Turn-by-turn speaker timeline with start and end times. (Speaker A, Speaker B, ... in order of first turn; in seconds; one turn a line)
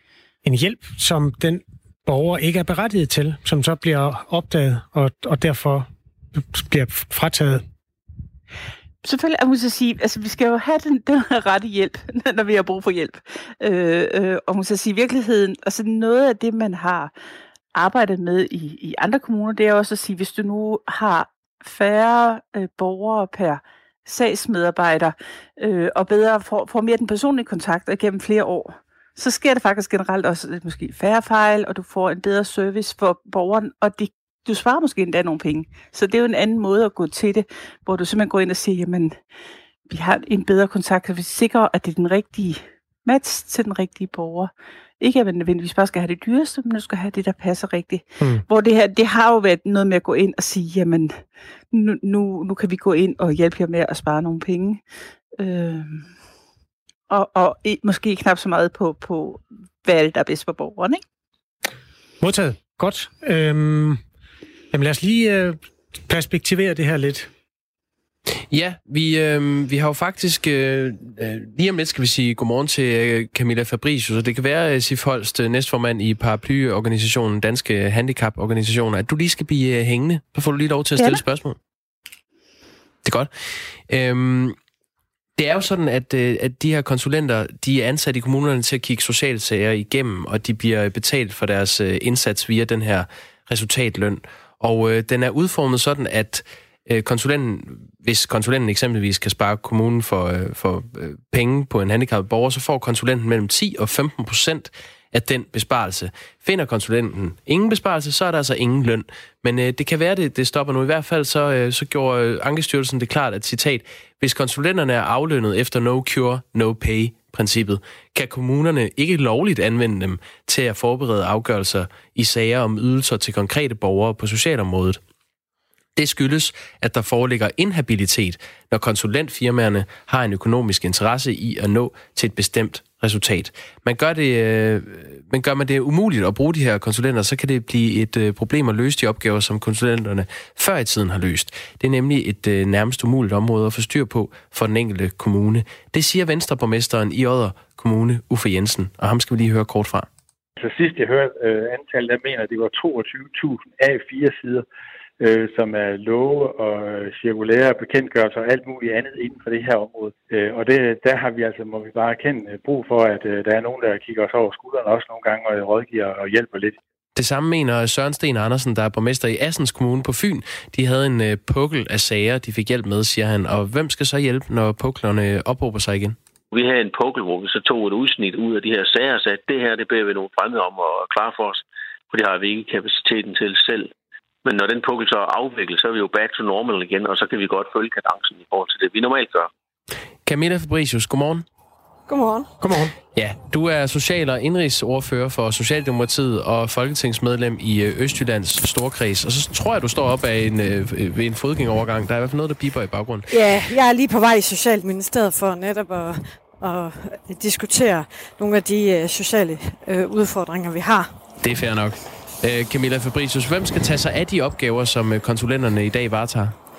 Speaker A: 0.4-7.6
Speaker B: 9.0-17.1
Speaker B: 17.7-39.2
Speaker B: 39.9-51.2
Speaker B: 51.7-54.8
Speaker B: 55.4-56.1
Speaker B: 57.1-61.0
Speaker A: 62.2-64.0
Speaker A: 64.7-67.3
Speaker C: 68.5-81.6
Speaker C: 83.0-83.3
Speaker C: 83.9-84.6
Speaker C: 85.4-125.0
Speaker C: 126.0-150.1
Speaker D: 150.6-154.7
Speaker D: 155.2-166.8
Speaker C: 167.2-176.2
Speaker E: 176.5-183.9
Speaker E: 184.4-189.5
Speaker C: 190.2-191.5
Speaker F: 192.1-192.5
Speaker A: 192.6-192.9
Speaker C: 193.2-203.3
Speaker F: 203.3-211.1
Speaker C: 211.4-216.6